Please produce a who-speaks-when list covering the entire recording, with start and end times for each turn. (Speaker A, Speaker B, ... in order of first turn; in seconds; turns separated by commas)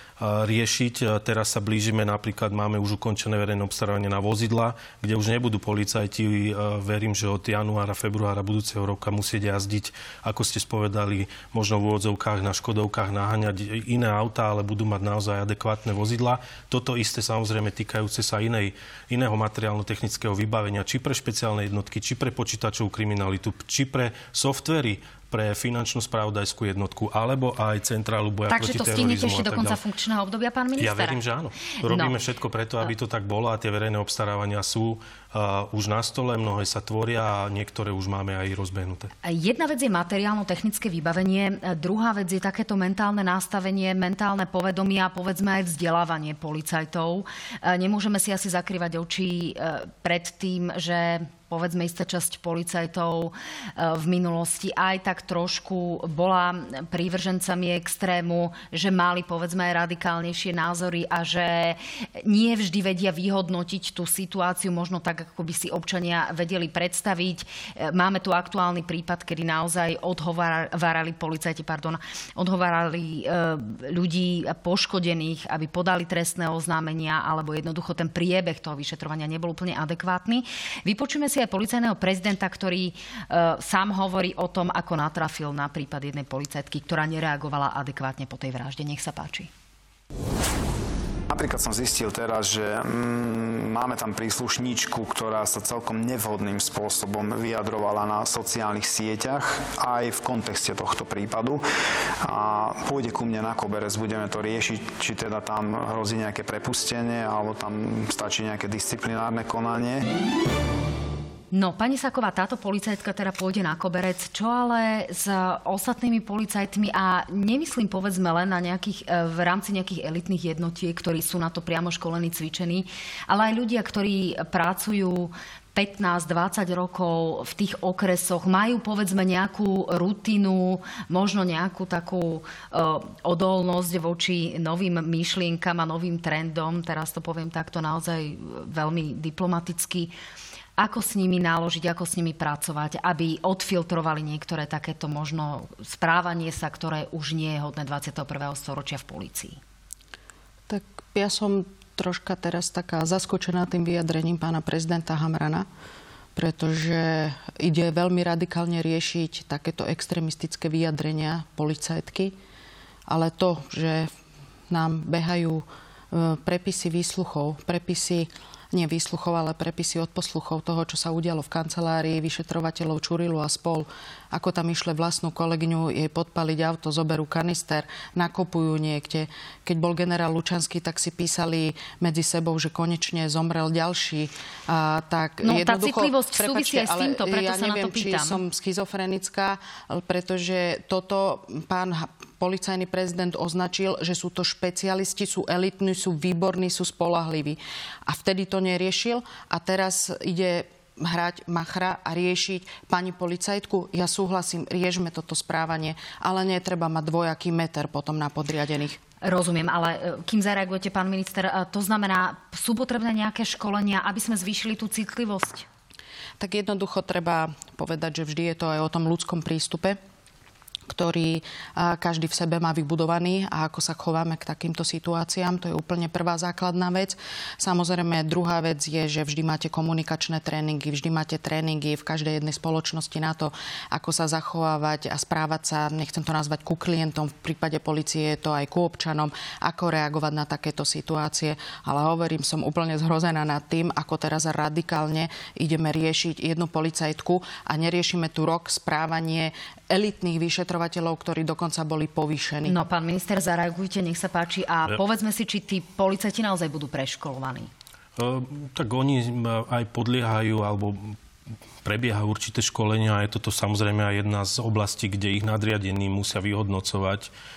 Speaker A: 0.2-29.8, Speaker B: 28.5-31.2, Speaker A: 30.8-39.1, Speaker B: 31.9-32.1, Speaker B: 39.2-89.5, Speaker C: 91.3-101.6, Speaker C: 102.2-110.1, Speaker B: 111.5-140.1, Speaker B: 140.8-149.6, Speaker D: 150.7-155.7, Speaker D: 156.3-162.4, Speaker D: 163.1-164.1, Speaker D: 164.7-209.0, Speaker B: 185.4-188.4, Speaker B: 209.2-215.7, Speaker D: 216.4-220.0, Speaker D: 220.9-252.8, Speaker B: 252.7-257.7, Speaker A: 258.2-261.2, Speaker A: 261.8-267.3